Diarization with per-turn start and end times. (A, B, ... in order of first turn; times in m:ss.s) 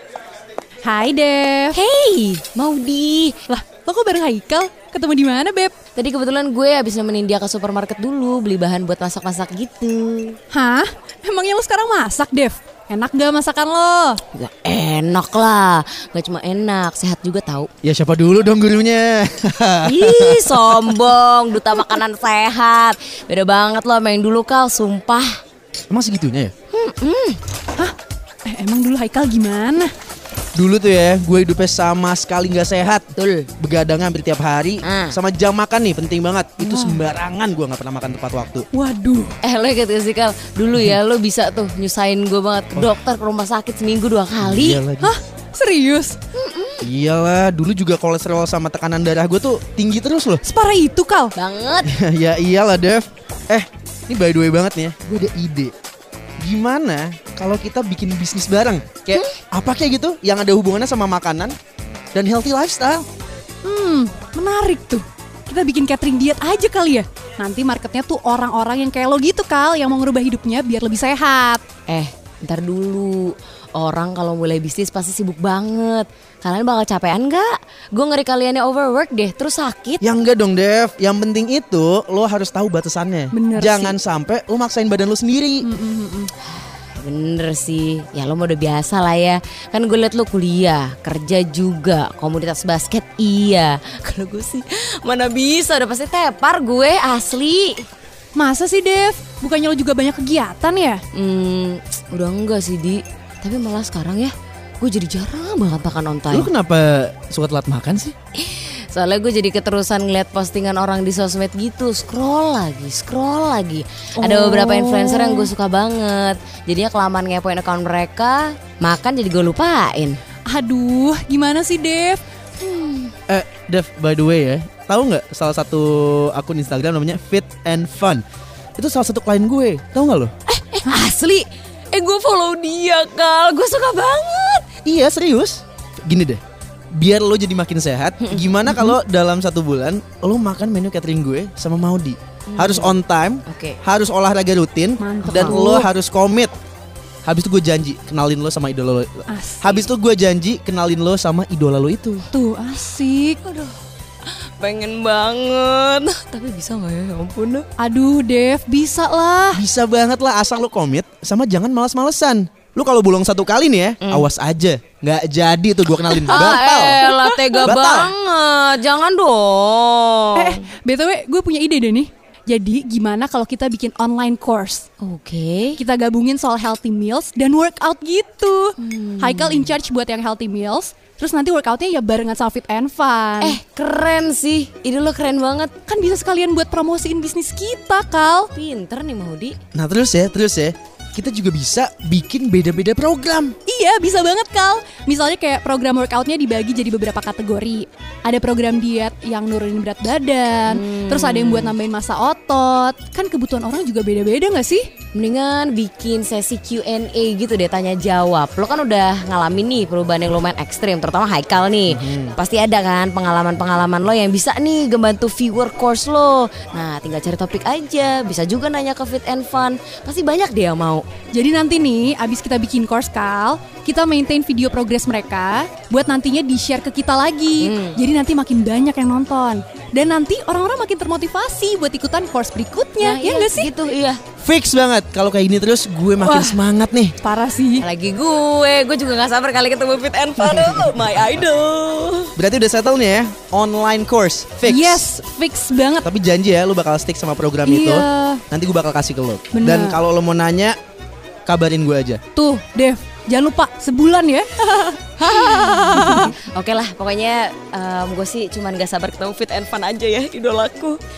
0:00.8-0:01.8 A
0:01.7-0:03.4 B
0:03.5-0:05.7 A
0:05.9-0:10.4 B
0:10.5-0:14.2 A
0:14.3-0:17.7 B
0:17.8-0:20.8 C
0:19.8-0:25.4 B
0:25.9-0:26.5 C
0:26.7-0:27.4 B
0:28.4-0:29.9 A
0:30.5-0:38.7 C
0:33.2-0:33.5 B
0:34.8-0:35.2 B
0:36.6-0:37.0 A
0:38.7-0:39.4 A
0:39.4-0:44.8 B
0:44.4-0:45.2 C
0:45.0-0:46.2 A
0:46.3-0:46.9 B
0:46.8-0:50.4 C
0:50.4-0:51.3 A
0:51.3-0:51.9 B
0:51.8-0:55.7 C
0:56.4-1:01.6 C
0:59.1-0:59.4 B
1:02.1-1:03.1 C
1:03.6-1:11.6 A
1:11.9-1:20.0 B
1:20.0-1:25.7 C
1:23.3-1:24.0 A
1:25.6-1:26.3 A
1:26.5-1:37.9 B
1:38.3-1:41.0 A
1:41.1-1:46.5 B
1:46.3-1:48.1 C
1:48.3-2:00.2 B
1:54.2-1:55.5 A
2:00.5-2:02.2 A
2:02.6-2:03.1 B
2:03.3-2:08.2 C
2:08.8-2:10.3 C
2:10.5-2:14.6 B
2:14.8-2:26.5 C
2:18.2-2:19.0 B
2:22.5-2:23.8 B
2:25.0-2:25.9 A
2:25.2-2:25.6 B
2:27.2-2:32.3 C
2:29.3-2:29.9 A
2:32.3-2:33.6 A
2:34.3-2:37.7 B
2:37.8-2:39.6 A
2:39.5-2:47.0 C
2:44.0-2:44.3 B
2:46.1-2:48.1 A
2:46.3-2:50.6 B
2:47.6-2:48.1 C
2:50.4-2:54.9 A
2:55.0-2:55.8 B
2:55.8-3:03.6 A
2:58.8-2:59.7 B
3:03.4-3:05.7 B
3:05.9-3:08.5 A
3:08.5-3:09.6 B
3:09.7-3:13.6 C
3:13.7-3:24.9 A
3:20.7-3:21.7 B
3:25.1-3:41.0 B
3:31.9-3:32.4 C
3:41.3-3:53.7 A
3:47.6-3:48.0 B
3:53.0-3:54.2 B
3:54.4-3:57.2 C
3:56.2-3:56.6 A
3:57.2-3:57.8 A
3:57.8-4:02.3 B
4:00.4-4:01.0 C
4:02.4-4:05.0 C
4:04.6-4:06.1 A
4:06.0-4:10.8 C
4:07.6-4:08.4 A
4:09.5-4:10.0 A
4:11.4-4:12.2 C
4:12.3-4:16.3 A
4:15.2-4:21.0 B